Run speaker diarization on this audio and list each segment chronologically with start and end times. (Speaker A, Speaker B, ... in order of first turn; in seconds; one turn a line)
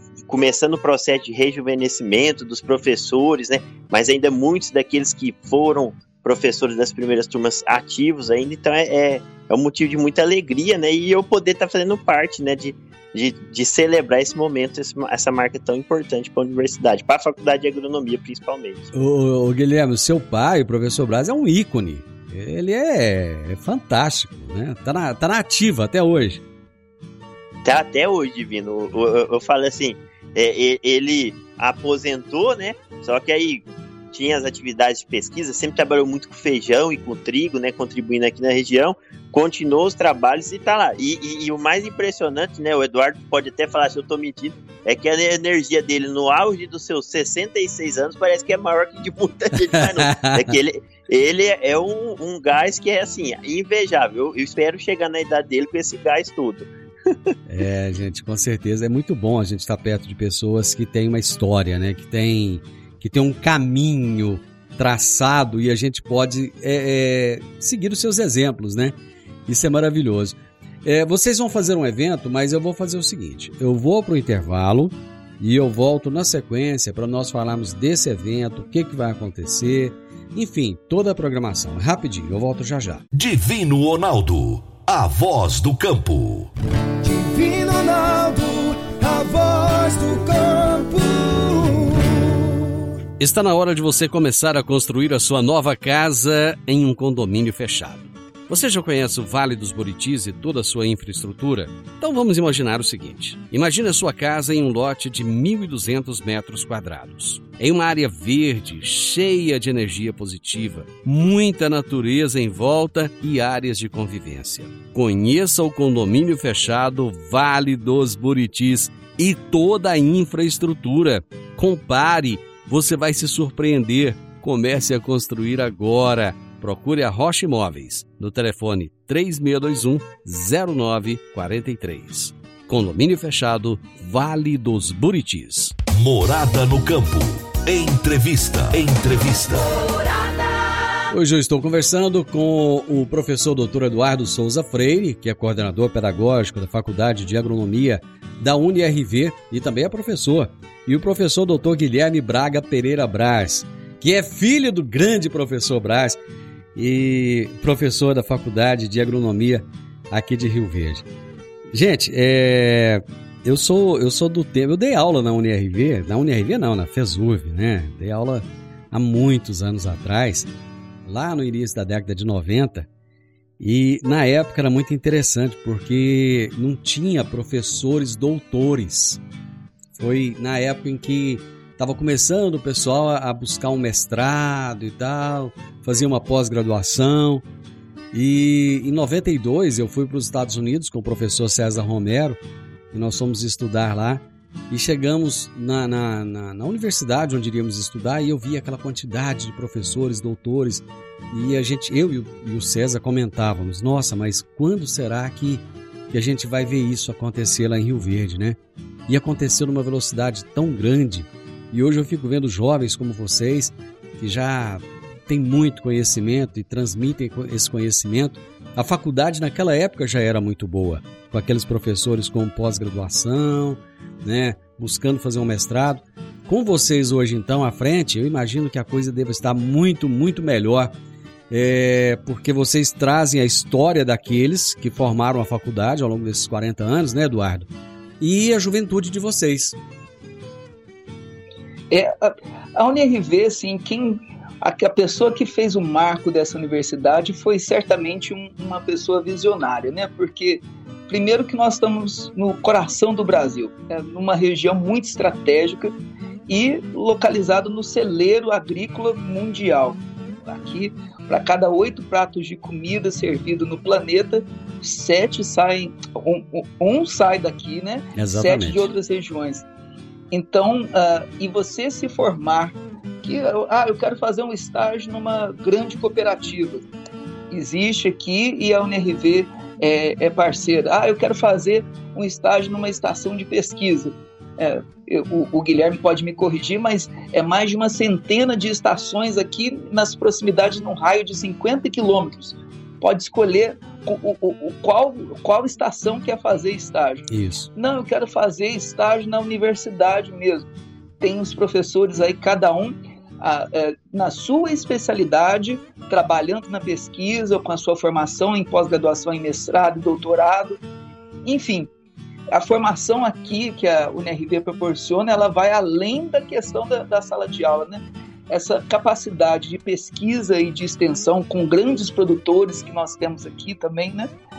Speaker A: 0.3-18.9
Speaker B: 18.9-26.4
Speaker A: 27.6-57.2
Speaker B: 49.6-50.5
Speaker B: 57.5-68.9
Speaker B: 69.5-83.0
Speaker C: 83.1-86.5
Speaker D: 87.0-92.5
Speaker B: 93.2-135.7
Speaker C: 135.9-139.7
Speaker B: 141.1-156.2
Speaker B: 156.8-161.0
Speaker B: 161.7-170.5
Speaker B: 171.1-172.9
Speaker B: 173.6-179.2
Speaker B: 179.9-187.4
Speaker B: 188.1-192.4
Speaker B: 192.9-208.6
Speaker B: 209.1-230.9
Speaker B: 231.5-237.7
Speaker B: 238.2-239.8
Speaker E: 241.9-255.9
Speaker E: 256.5-269.6
Speaker B: 268.2-268.9
Speaker E: 270.3-276.8
Speaker E: 277.5-300.6
Speaker B: 297.3-297.7
Speaker E: 301.2-310.8
Speaker E: 311.4-311.9
Speaker E: 312.5-324.3